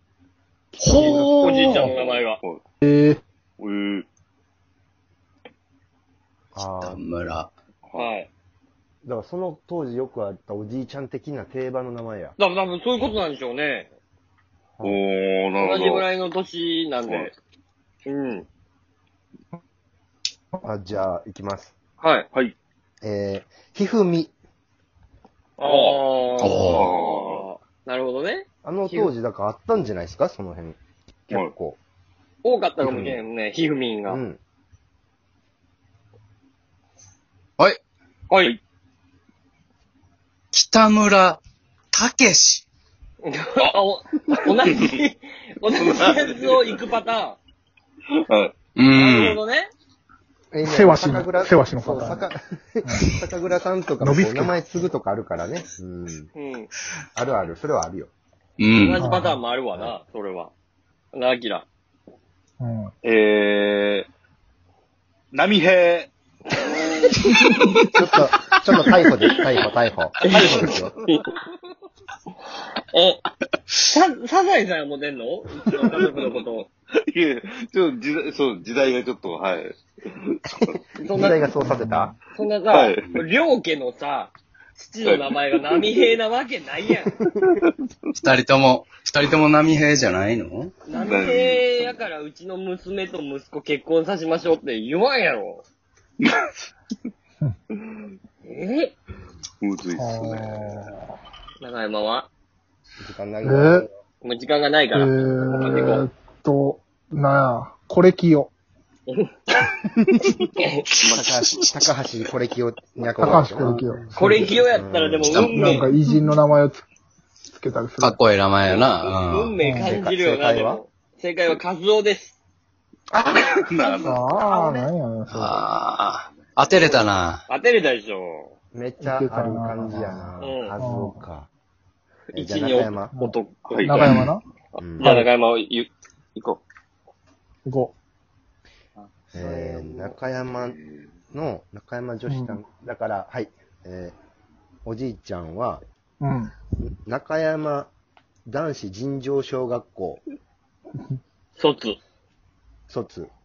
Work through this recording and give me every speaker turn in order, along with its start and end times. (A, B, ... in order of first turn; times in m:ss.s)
0:00.8-0:01.9 A
0:01.0-0:01.6 B
0:01.1-0:02.4 C
0:01.7-0:02.6 D
0:02.8-0:03.2 B
0:03.6-0:04.1 D
0:06.5-0:07.0 E
0:06.8-0:07.5 A
0:08.0-0:08.3 C
0:09.0-0:12.4 E
0:12.4-0:13.9 C
0:14.8-0:16.1 D
0:15.6-0:17.4 C
0:17.0-0:17.3 D
0:18.1-0:18.5 C
0:20.6-0:21.7 E
0:22.0-0:22.3 C
0:23.0-0:24.3 E
0:25.6-0:29.1 C
0:25.6-0:26.0 D
0:26.4-0:26.9 A
0:26.6-0:27.4 D
0:28.6-0:31.8 E
0:32.4-0:34.2 C
0:32.8-0:33.2 E
0:34.1-0:34.4 E
0:38.3-0:38.6 C
0:40.5-0:41.4 A
0:41.9-0:42.6 A
0:43.2-0:47.4 C
0:44.5-0:45.0 D
0:45.8-0:46.7 D
0:48.1-0:48.6 D
0:48.8-0:49.4 A
0:49.0-0:49.7 C
0:50.5-0:56.3 E
0:50.6-0:52.2 B
0:52.8-0:53.2 B
0:54.0-0:54.6 B
0:56.4-0:56.7 C
0:57.2-0:58.1 E
0:58.6-0:59.0 A
0:58.8-1:00.5 C
0:59.0-0:59.4 B
1:01.1-1:01.7 C
1:02.6-1:02.9 B
1:03.0-1:04.1 D
1:05.3-1:06.1 D
1:07.0-1:07.5 C
1:07.9-1:10.9 E
1:10.2-1:11.3 C
1:10.5-1:10.8 D
1:12.9-1:13.2 C
1:13.8-1:16.7 C
1:16.9-1:20.8 D
1:21.0-1:21.6 C
1:21.1-1:22.1 E
1:21.8-1:22.2 B
1:22.3-1:27.1 C
1:22.7-1:23.1 D
1:25.0-1:25.8 D
1:27.4-1:27.7 D
1:28.1-1:30.7 A
1:30.9-1:35.6 C
1:31.0-1:31.6 D
1:36.2-1:36.6 D
1:38.4-1:39.0 C
1:39.6-1:40.7 D
1:40.0-1:41.1 B
1:41.6-1:42.3 C
1:43.0-1:43.9 E
1:43.4-1:43.9 B
1:44.2-1:46.1 C
1:44.9-1:48.5 B
1:49.1-1:49.3 C
1:50.6-1:50.8 C
1:50.9-1:51.9 A
1:51.1-1:53.9 E
1:53.2-1:54.5 B
1:54.2-1:55.9 C
1:54.6-1:55.5 E
1:55.3-1:55.9 A
1:55.5-1:56.9 B
1:57.5-1:58.2 B
1:58.0-1:59.6 A
1:58.8-2:02.3 C
1:59.6-2:00.0 B
1:59.8-2:00.8 E
2:03.1-2:03.6 E
2:03.5-2:04.3 D
2:04.0-2:05.6 B
2:04.5-2:04.9 E
2:05.3-2:07.4 A
2:06.9-2:08.5 C
2:08.7-2:11.5 E
2:09.0-2:11.2 B
2:10.4-2:10.8 C
2:12.3-2:13.1 E
2:12.3-2:14.1 C
2:13.1-2:14.4 B
2:13.7-2:14.0 D
2:14.0-2:14.3 A
2:14.8-2:16.6 C
2:14.8-2:15.2 E
2:15.0-2:15.3 B
2:17.7-2:17.9 B
2:19.3-2:20.8 E
2:19.4-2:20.0 C
2:21.3-2:24.2 E
2:22.3-2:22.6 B
2:24.8-2:25.8 E
2:26.2-2:26.5 B
2:26.8-2:27.9 E
2:28.5-2:30.2 E
2:31.6-2:32.0 C
2:32.9-2:33.3 E